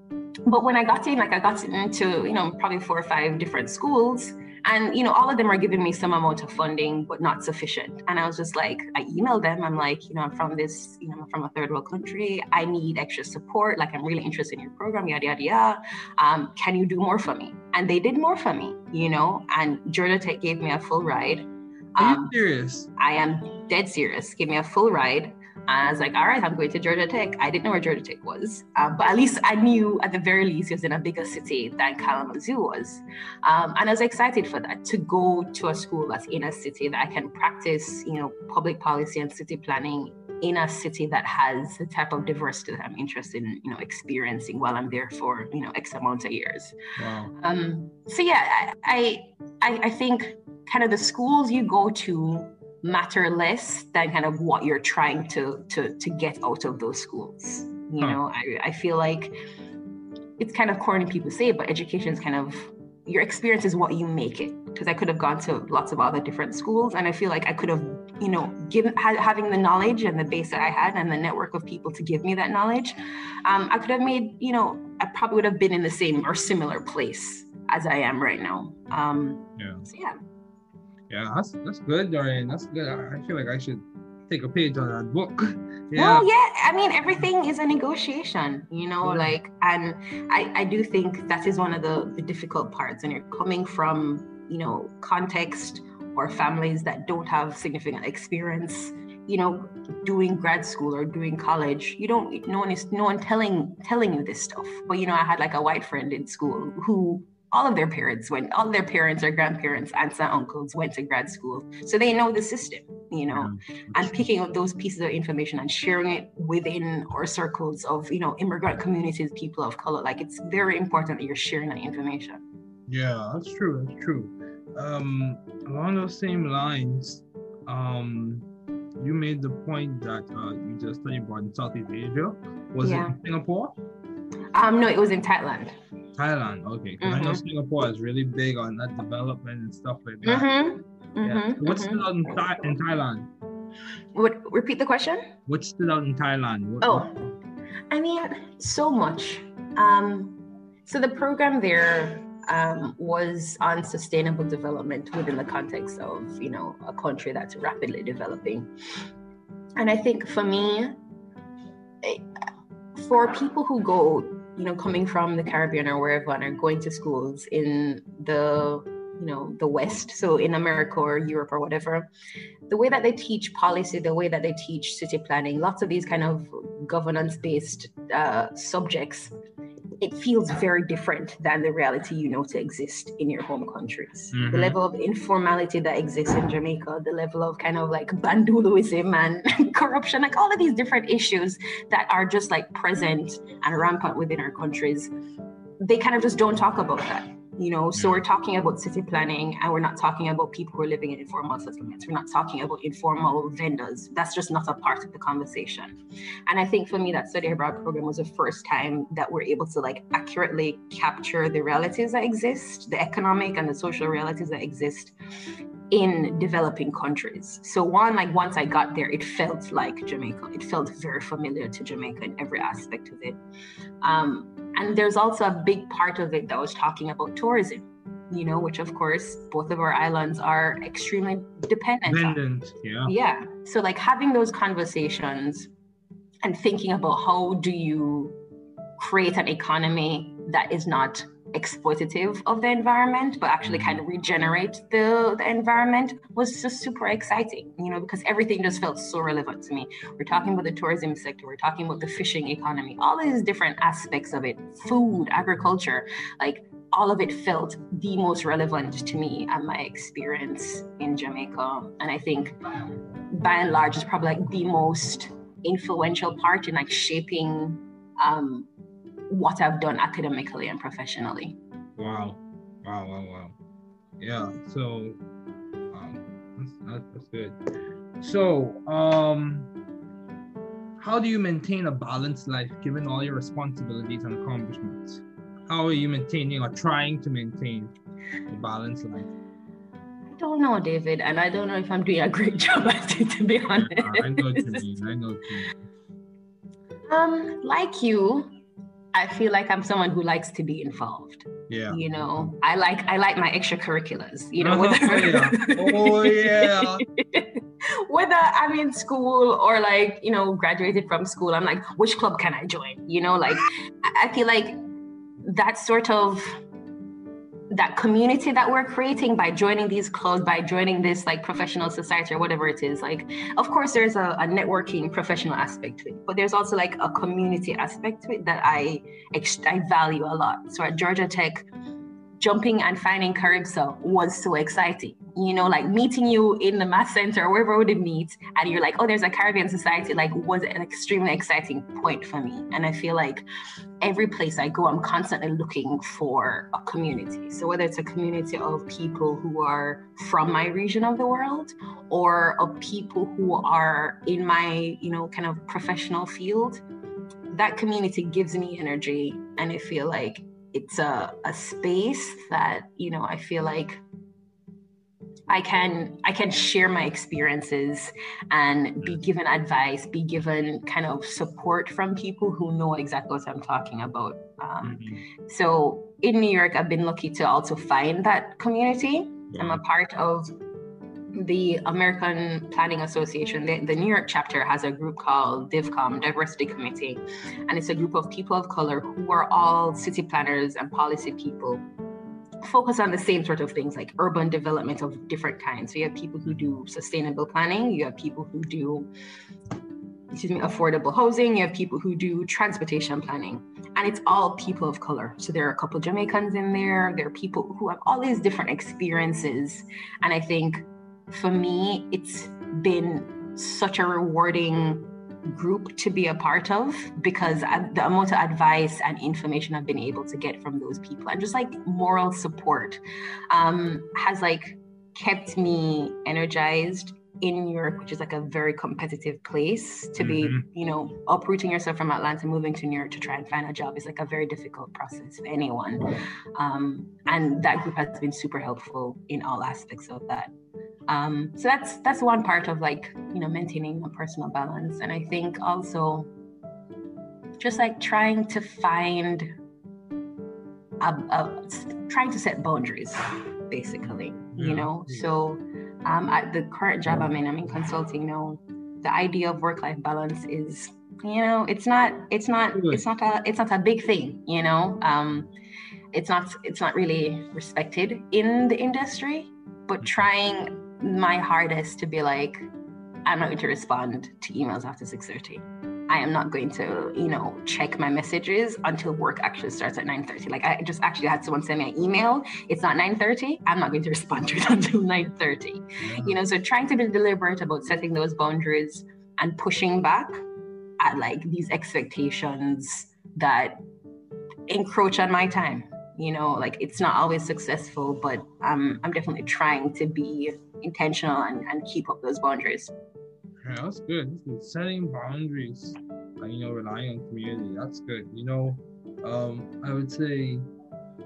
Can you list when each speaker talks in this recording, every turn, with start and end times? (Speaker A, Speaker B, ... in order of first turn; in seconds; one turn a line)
Speaker A: 0.5-22.3
Speaker B: 22.0-22.9
Speaker A: 23.0-46.8
Speaker B: 47.0-47.3
Speaker A: 47.3-59.3
Speaker A: 60.4-80.2
Speaker B: 79.6-79.8
Speaker B: 81.1-86.3
Speaker A: 86.0-122.4
Speaker B: 89.0-89.3
Speaker B: 113.3-114.3
Speaker B: 122.9-128.5
Speaker B: 129.0-133.8
Speaker A: 132.8-133.2
Speaker A: 134.5-135.8
Speaker B: 136.2-140.5
Speaker A: 137.0-137.4
Speaker A: 140.2-142.1
Speaker B: 141.2-143.3
Speaker A: 144.1-145.3
Speaker B: 145.5-147.2
Speaker A: 146.8-147.1
Speaker A: 147.9-158.7
Speaker A: 159.8-161.0
Speaker A: 163.0-172.1
Speaker A: 172.7-179.3
Speaker A: 180.0-195.1
Speaker B: 184.3-184.8
Speaker A: 195.8-206.0
Speaker B: 198.0-198.2
Speaker A: 206.5-215.2
Speaker A: 215.9-223.4
Speaker A: 224.0-232.4
Speaker B: 232.1-233.1
Speaker A: 233.1-235.7
Speaker A: 236.4-238.4
Speaker A: 239.0-262.6
Speaker B: 243.6-244.0
Speaker A: 263.3-268.7
Speaker A: 269.3-271.6
Speaker B: 272.0-273.6
Speaker B: 274.2-275.2
Speaker B: 275.9-277.6
Speaker B: 278.2-279.7
Speaker B: 281.0-287.9
Speaker B: 288.5-289.3
Speaker A: 290.3-294.9
Speaker B: 293.8-295.8
Speaker A: 297.1-298.5
Speaker A: 299.1-314.8
Speaker B: 301.7-302.5
Speaker B: 304.6-307.1
Speaker A: 315.4-316.6
Speaker A: 317.7-331.7
Speaker A: 332.4-343.5
Speaker A: 344.0-356.8
Speaker A: 357.5-364.0
Speaker A: 365.5-380.6
Speaker B: 374.8-375.3
Speaker B: 379.5-379.8
Speaker A: 381.4-391.9
Speaker A: 392.6-399.1
Speaker B: 396.4-396.8
Speaker A: 400.3-440.5
Speaker B: 430.2-430.6
Speaker A: 441.1-446.3
Speaker A: 447.6-449.5
Speaker A: 451.0-465.5
Speaker B: 454.0-455.3
Speaker B: 462.7-463.0
Speaker A: 466.1-472.7
Speaker A: 473.3-490.4
Speaker B: 486.0-486.4
Speaker A: 491.0-493.8
Speaker A: 494.7-502.9
Speaker B: 503.6-510.6